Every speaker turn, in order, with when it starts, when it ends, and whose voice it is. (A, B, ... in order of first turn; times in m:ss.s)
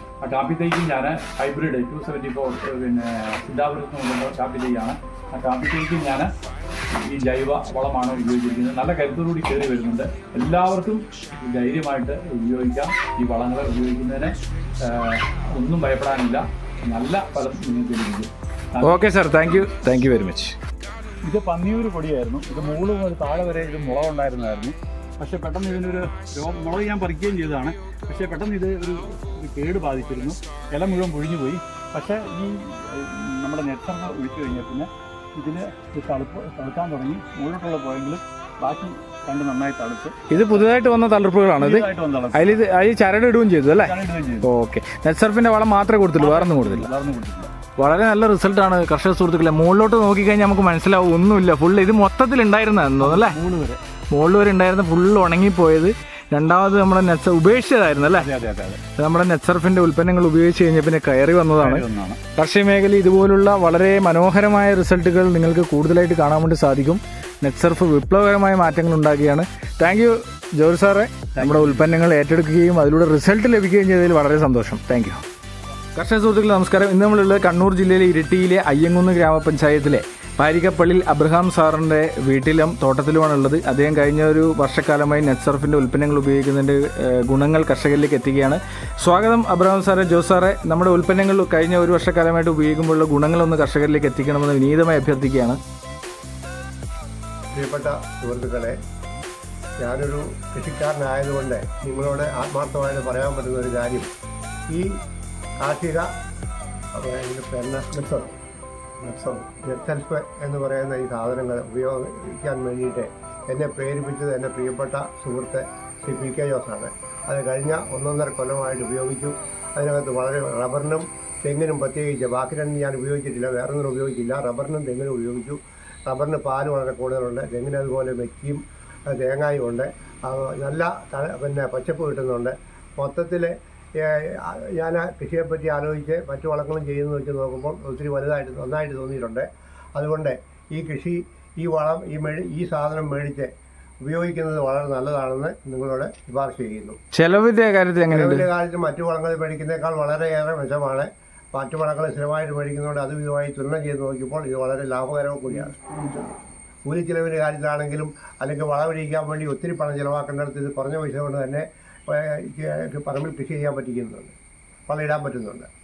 0:00.2-0:06.3 A
0:07.0-0:14.4 A
0:14.9-0:19.0 A
0:18.8-0:20.6 B
0:21.2-0:40.6 A
0:40.3-0:46.9 B
0:41.6-0:42.6 A
0:43.7-0:44.5 A
0:46.2-0:47.5 A
0:47.8-0:53.4 B
0:53.0-0:53.8 A
0:54.1-0:58.3 B
0:58.1-0:58.8 A
0:59.0-1:01.8 B
1:01.6-1:02.2 A
1:02.4-1:15.2 B
1:11.4-1:11.9 A
1:16.0-1:35.6 B
1:37.5-1:38.8 C
1:39.8-1:44.1 C
1:45.6-1:46.1 C
1:47.0-1:48.4 C
1:49.0-2:23.5 C
2:24.0-2:27.0 C
2:27.1-2:28.5 B
2:28.1-2:36.3 C
2:36.9-2:44.3 C
2:44.9-2:45.7 C